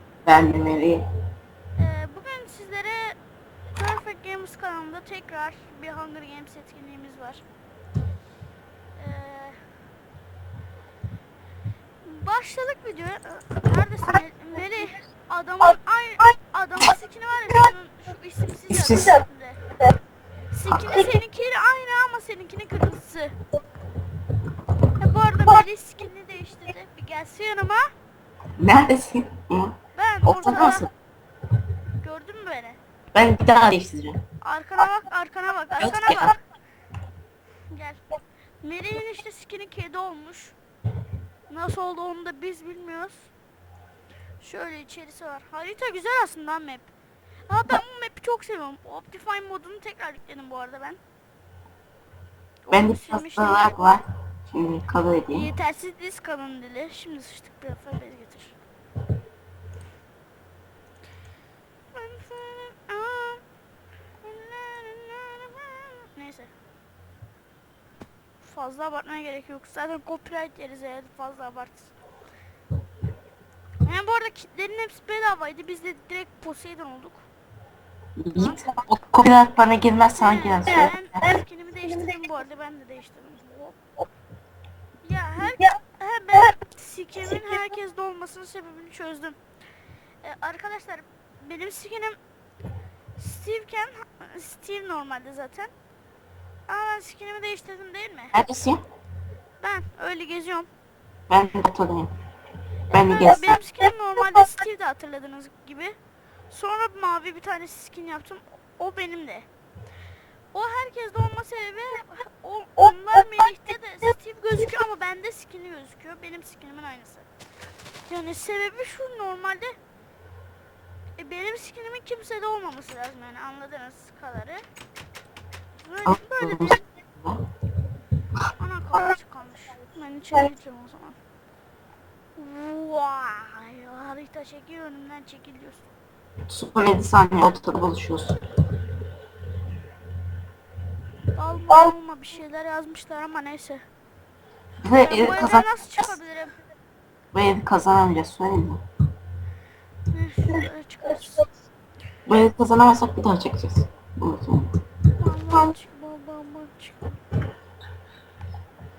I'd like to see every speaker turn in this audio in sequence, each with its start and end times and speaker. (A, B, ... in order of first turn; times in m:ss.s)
0:00.3-0:01.1 A
0:01.8-0:03.2 B
0:03.8-0:07.4 B
0:09.0-0:09.6 B
0:12.0-0:19.6 B
0:18.7-0:19.2 A
0:20.5-0:23.4 B
0:20.7-0:21.0 A
0:25.0-0:27.8 B
0:28.6-0:30.9 A
0:30.0-0:30.9 B
0:32.0-0:32.8 B
0:33.1-0:34.2 A
0:34.4-0:36.4 B
0:35.8-0:36.3 A
0:37.7-0:38.0 B
0:38.6-0:40.6 B
0:41.5-0:43.3 B
0:44.4-0:46.9 B
0:47.5-0:51.0 B
0:52.7-0:53.7 B
0:52.7-0:55.5 A
0:55.3-0:58.5 B
1:01.9-1:03.4 B
1:04.2-1:06.5 B
1:08.4-1:11.9 B
1:13.8-1:17.2 B
1:18.2-1:21.3 A
1:18.4-1:18.7 B
1:20.2-1:23.8 B
1:25.0-1:29.4 B
1:30.2-1:32.2 B
1:33.2-1:35.7 B
1:36.7-1:38.4 B
1:38.3-1:38.8 A
1:39.6-1:40.7 B
1:41.3-1:42.1 A
1:42.9-1:46.0 B
1:42.9-1:43.6 A
1:46.5-1:49.5 B
1:50.5-1:57.3 B
1:58.1-1:59.8 B
2:01.2-2:04.6 B
2:05.8-2:06.8 B
2:06.1-2:07.5 A
2:08.6-2:11.2 B
2:12.4-2:15.8 B
2:16.5-2:18.4 A
2:21.3-2:23.8 B
2:24.8-2:26.1 A
2:25.0-2:26.6 B
2:27.3-2:28.8 A
2:30.1-2:31.5 B
2:32.3-2:34.8 A
2:35.2-2:37.2 B